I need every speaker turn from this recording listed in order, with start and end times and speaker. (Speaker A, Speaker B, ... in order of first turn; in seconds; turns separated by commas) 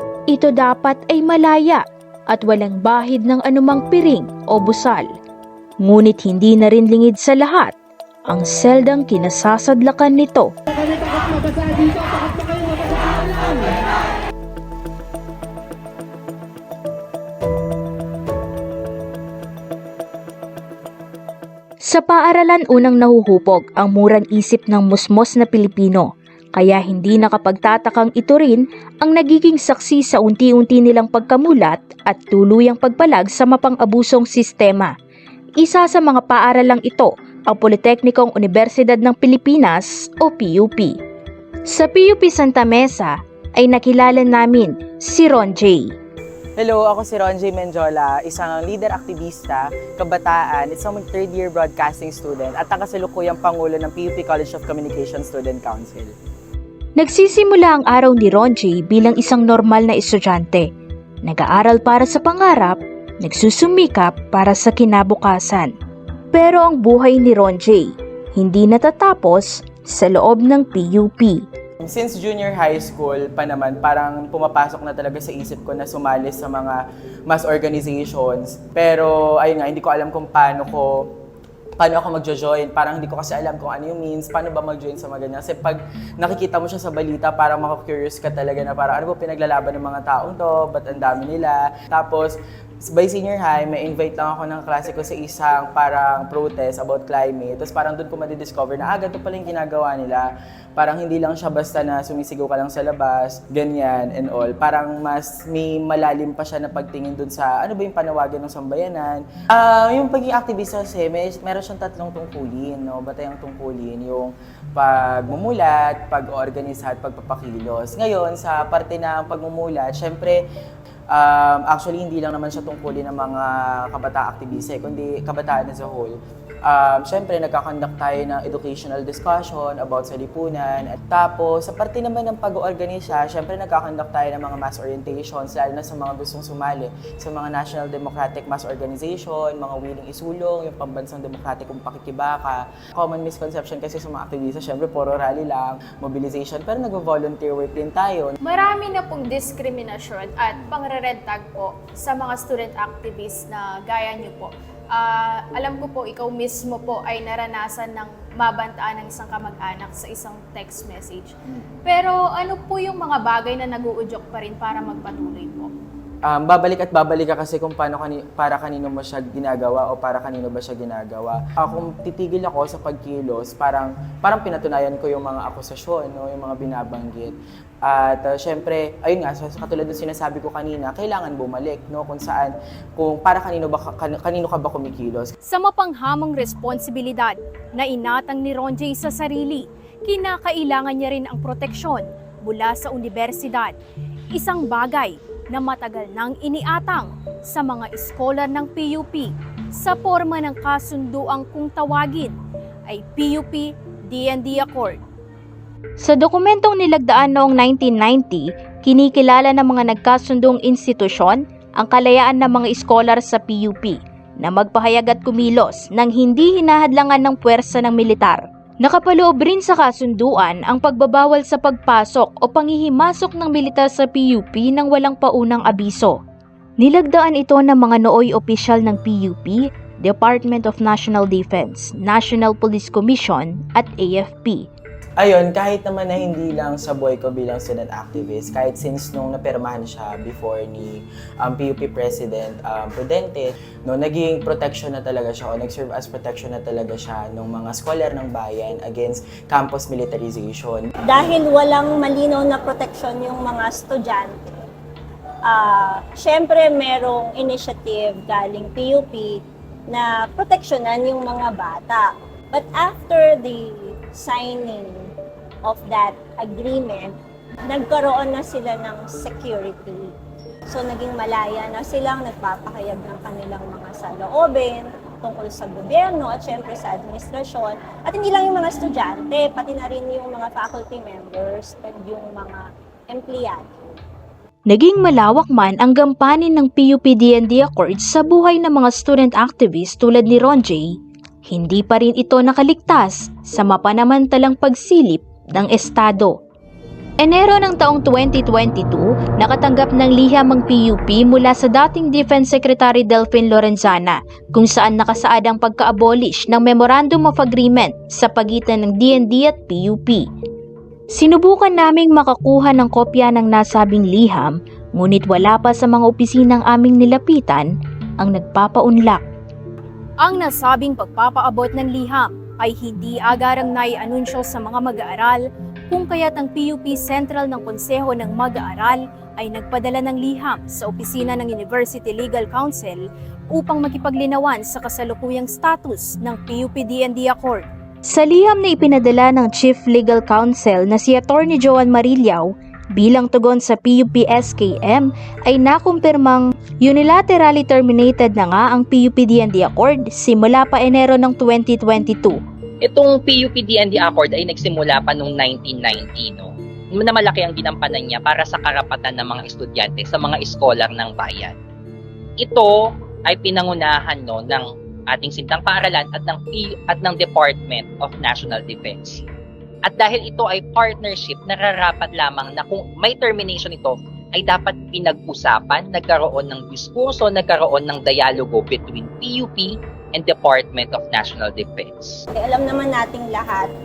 Speaker A: 0.3-5.1, Speaker A: 5.8-7.7, Speaker A: 8.3-10.5, Speaker A: 21.8-34.9, Speaker A: 35.6-41.0, Speaker A: 41.7-45.9, Speaker B: 46.6-56.1, Speaker A: 57.0-60.7, Speaker A: 61.2-65.7, Speaker A: 66.3-71.4, Speaker B: 71.8-81.1, Speaker B: 81.8-120.4, Speaker B: 121.1-148.3, Speaker C: 148.4-161.3, Speaker C: 161.8-165.7, Speaker B: 166.2-185.3, Speaker C: 185.5-193.8, Speaker C: 194.3-202.3, Speaker C: 202.9-205.0, Speaker A: 206.0-226.2, Speaker A: 226.8-234.7, Speaker B: 235.2-250.9, Speaker D: 251.1-254.6, Speaker D: 255.5-265.1, Speaker D: 265.7-267.2, Speaker D: 267.7-270.1, Speaker D: 270.7-283.9, Speaker A: 284.7-290.9, Speaker A: 291.5-296.4, Speaker A: 297.2-310.2, Speaker A: 311.1-319.2, Speaker C: 320.2-337.6, Speaker A: 338.1-352.4, Speaker E: 352.8-361.6, Speaker E: 362.4-369.3, Speaker E: 369.9-382.2, Speaker D: 382.4-383.7